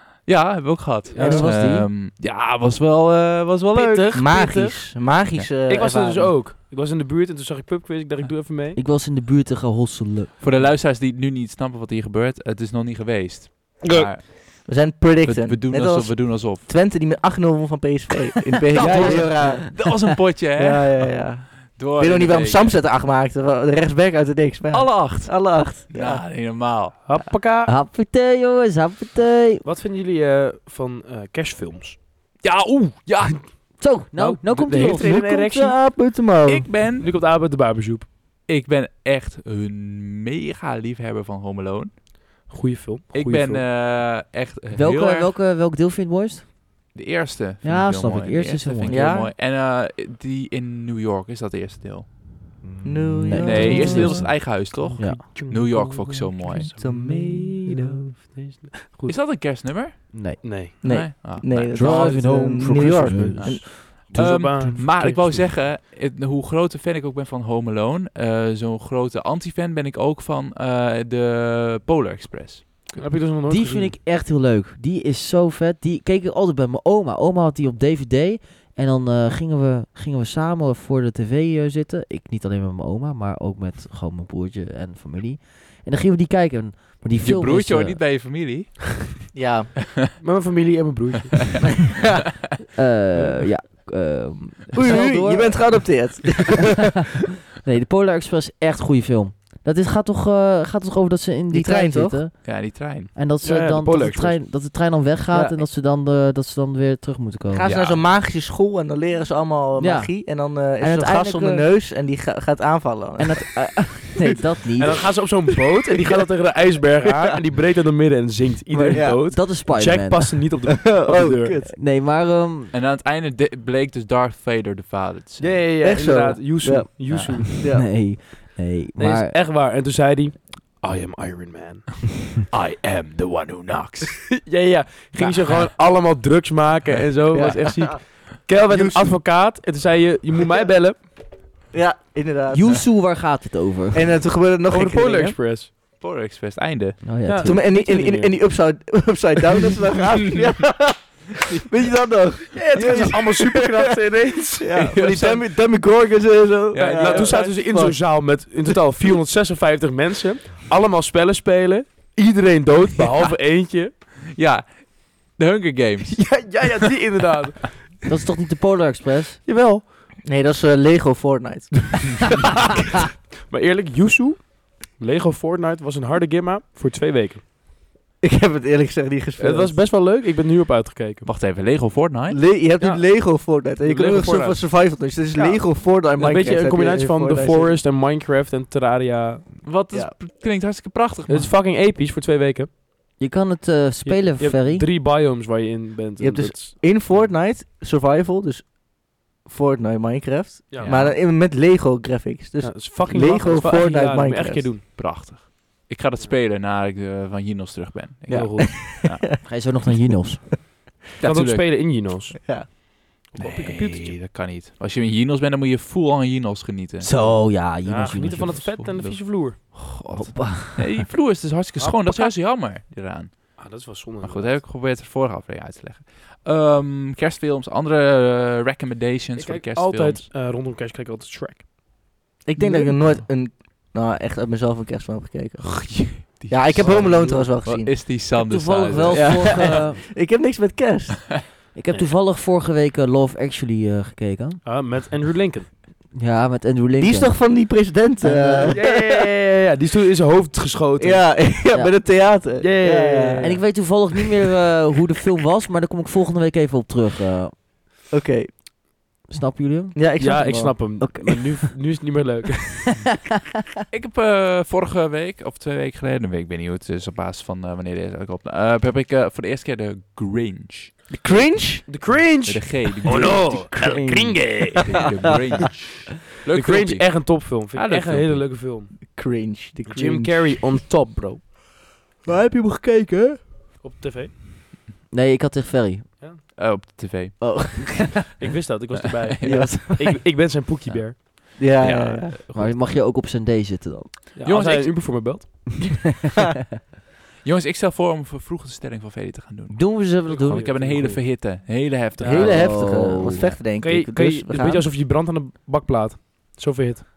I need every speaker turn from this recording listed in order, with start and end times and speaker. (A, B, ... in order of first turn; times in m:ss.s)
0:00.2-0:04.3 A
0:01.1-0:01.5 B
0:01.2-0:01.9 C
0:03.7-0:04.8 B
0:04.1-0:06.3 D
0:05.7-0:08.8 B
0:08.7-0:10.3 C
0:10.4-0:14.7 A
0:13.8-0:14.1 B
0:14.2-0:19.8 D
0:15.2-0:16.7 A
0:18.7-0:22.8 A
0:18.8-0:19.3 C
0:18.9-0:19.5 B
0:20.6-0:26.2 D
0:24.7-0:27.0 A
0:27.0-0:27.7 B
0:27.6-0:29.6 C
0:29.6-0:32.0 B
0:32.4-0:33.5 A
0:33.8-0:35.2 C
0:34.2-0:35.7 B
0:34.7-0:36.7 D
0:36.4-0:37.1 A
0:37.0-0:38.1 B
0:38.4-0:41.9 A
0:42.5-0:43.6 B
0:43.1-0:45.3 A
0:44.7-0:46.4 C
0:46.9-0:52.6 A
0:47.6-0:49.0 C
0:48.8-0:49.3 D
0:52.6-0:55.2 C
0:52.8-0:54.3 D
0:53.3-0:56.7 A
0:53.6-0:59.2 B
0:56.8-0:58.0 D
0:59.0-1:02.2 A
1:00.1-1:00.4 C
1:00.4-1:01.1 B
1:00.8-1:03.7 D
1:01.6-1:04.7 C
1:02.8-1:12.9 A
1:03.9-1:05.5 B
1:12.9-1:14.0 B
1:13.5-1:28.0 C
1:27.2-1:29.3 A
1:29.3-1:29.7 D
1:30.2-1:31.5 B
1:32.7-1:35.9 C
1:33.1-1:33.4 B
1:34.7-1:36.9 D
1:37.5-1:42.6 C
1:41.5-1:42.2 D
1:42.4-1:43.1 A
1:43.1-1:47.7 C
1:43.4-1:44.4 B
1:47.5-1:54.3 D
1:47.6-1:48.0 A
1:49.8-1:50.1 C
1:50.8-1:51.6 C
1:53.2-1:55.1 C
1:54.8-2:01.6 B
1:58.7-2:00.5 C
1:58.9-1:59.2 D
2:00.8-2:01.7 D
2:01.7-2:02.7 C
2:02.7-2:05.6 A
2:05.4-2:07.5 B
2:05.8-2:07.9 D
2:07.1-2:07.4 A
2:07.6-2:09.3 C
2:09.0-2:12.0 B
2:12.5-2:14.3 A
2:14.3-2:21.0 B
2:15.2-2:15.6 A
2:17.3-2:18.0 D
2:18.7-2:19.2 D
2:21.7-2:22.8 D
2:22.5-2:24.1 C
2:23.9-2:25.4 D
2:24.7-2:25.7 B
2:26.0-2:27.1 A
2:27.0-2:27.6 C
2:27.2-2:28.4 B
2:27.4-2:33.9 D
2:32.5-2:34.7 B
2:34.6-2:38.0 D
2:34.7-2:35.5 A
2:36.7-2:37.6 A
2:36.9-2:43.9 B
2:44.3-2:46.6 A
2:46.1-2:47.9 B
2:48.1-2:49.4 C
2:49.4-2:49.8 B
2:50.2-2:52.5 D
2:53.4-2:57.4 B
2:58.2-2:59.8 D
2:59.4-3:01.2 B
3:01.2-3:02.4 A
3:02.3-3:07.8 D
3:02.8-3:04.7 B
3:05.3-3:09.5 B
3:09.6-3:11.5 A
3:11.3-3:12.7 B
3:13.2-3:14.9 C
3:14.0-3:16.7 B
3:16.2-3:24.7 D
3:20.7-3:21.1 B
3:20.8-3:21.2 A
3:22.6-3:24.8 B
3:24.9-3:29.2 A
3:28.3-3:29.2 D
3:28.3-3:28.8 B
3:29.2-3:30.6 C
3:31.2-3:31.7 A
3:31.2-3:32.8 B
3:32.4-3:32.7 D
3:33.3-3:34.2 B
3:33.4-3:37.1 A
3:37.0-3:38.7 C
3:37.2-3:39.6 B
3:38.5-3:50.2 A
3:40.1-3:40.9 C
3:41.8-3:42.3 B
3:43.6-3:44.6 B
3:49.4-3:51.6 B
3:52.4-3:57.9 D
3:52.6-3:52.9 C
3:55.6-3:59.7 A
3:56.7-3:57.5 B
3:58.4-4:00.0 C
3:59.1-4:01.5 D
4:01.7-4:04.6 C
4:04.6-4:05.7 B
4:06.1-4:07.5 C
4:07.0-4:09.0 D
4:08.2-4:08.8 C
4:08.7-4:11.3 B
4:11.0-4:13.6 D
4:12.6-4:13.6 B
4:13.4-4:17.5 C
4:18.1-4:18.5 D
4:19.3-4:20.0 C
4:19.9-4:21.0 D
4:20.2-4:23.0 B
4:21.0-4:21.7 C
4:23.9-4:33.7 A
4:31.1-4:31.9 D
4:31.8-4:35.0 B
4:33.1-4:33.9 D
4:33.2-4:34.5 C
4:34.8-4:38.6 A
4:36.5-4:39.0 B
4:39.0-4:40.8 D
4:39.9-4:41.4 B
4:42.2-4:43.4 C
4:43.8-4:44.3 B
4:45.1-4:46.1 C
4:46.6-4:47.6 A
4:47.4-4:48.1 D
4:48.3-4:51.2 B
4:49.4-4:49.7 A
4:49.4-4:49.8 D
4:49.4-4:50.2 C
4:50.9-4:52.3 A
4:51.6-4:52.4 D
4:52.4-4:52.8 B
4:52.5-4:54.2 C
4:54.4-4:55.7 B
4:54.4-4:55.3 A
4:57.4-5:02.8 A
4:59.7-5:00.7 C
5:00.3-5:01.3 B
5:02.2-5:02.4 B
5:02.2-5:04.9 D
5:02.3-5:03.5 C
5:03.8-5:07.0 B